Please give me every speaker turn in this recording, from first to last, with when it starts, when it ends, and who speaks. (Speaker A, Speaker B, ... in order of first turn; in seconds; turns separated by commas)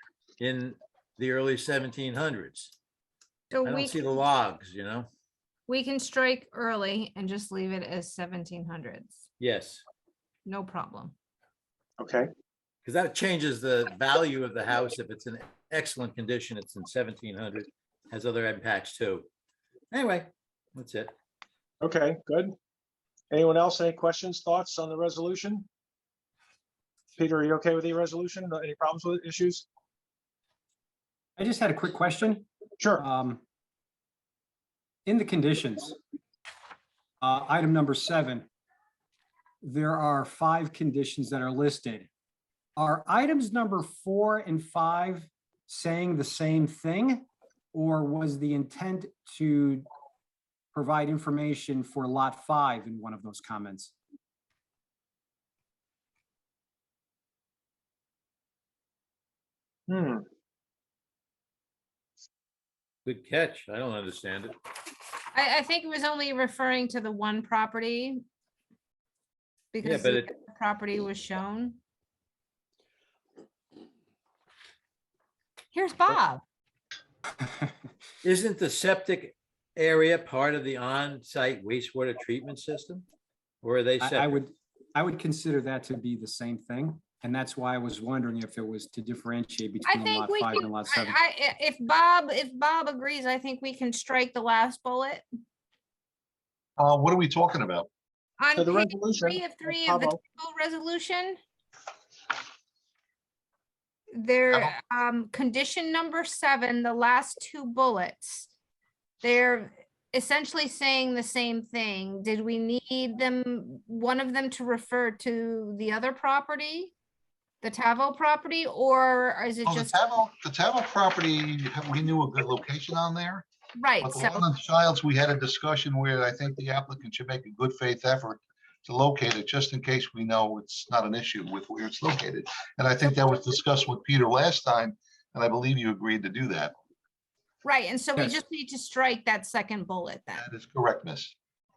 Speaker A: 0.4-2.7, Speaker B: 3.5-4.2, Speaker A: 3.6-5.1, Speaker B: 5.7-9.2, Speaker A: 9.4-9.8, Speaker B: 10.5-11.1, Speaker C: 12.0-12.3, Speaker A: 12.8-19.3, Speaker A: 19.9-21.1, Speaker C: 21.8-22.5, Speaker C: 23.3-25.7, Speaker C: 27.2-29.7, Speaker D: 31.4-32.5, Speaker C: 32.8-33.0, Speaker D: 33.0-33.4, Speaker D: 35.0-36.0, Speaker D: 37.2-38.5, Speaker D: 39.6-42.1, Speaker D: 42.8-49.9, Speaker D: 50.7-53.9, Speaker C: 59.9-60.2, Speaker A: 63.0-64.5, Speaker B: 65.3-68.2, Speaker B: 69.7-71.8, Speaker A: 69.8-70.3, Speaker B: 75.7-76.4, Speaker A: 78.2-83.0, Speaker A: 83.6-84.4, Speaker D: 84.0-91.2, Speaker B: 89.8-95.2, Speaker E: 96.8-97.9, Speaker B: 98.4-101.4, Speaker C: 98.6-100.1, Speaker B: 104.1-108.5, Speaker E: 104.5-104.8, Speaker B: 109.2-116.9, Speaker B: 117.6-120.0, Speaker E: 119.6-123.4, Speaker B: 123.8-124.5, Speaker E: 124.0-136.7, Speaker B: 137.6-140.4, Speaker E: 140.3-141.3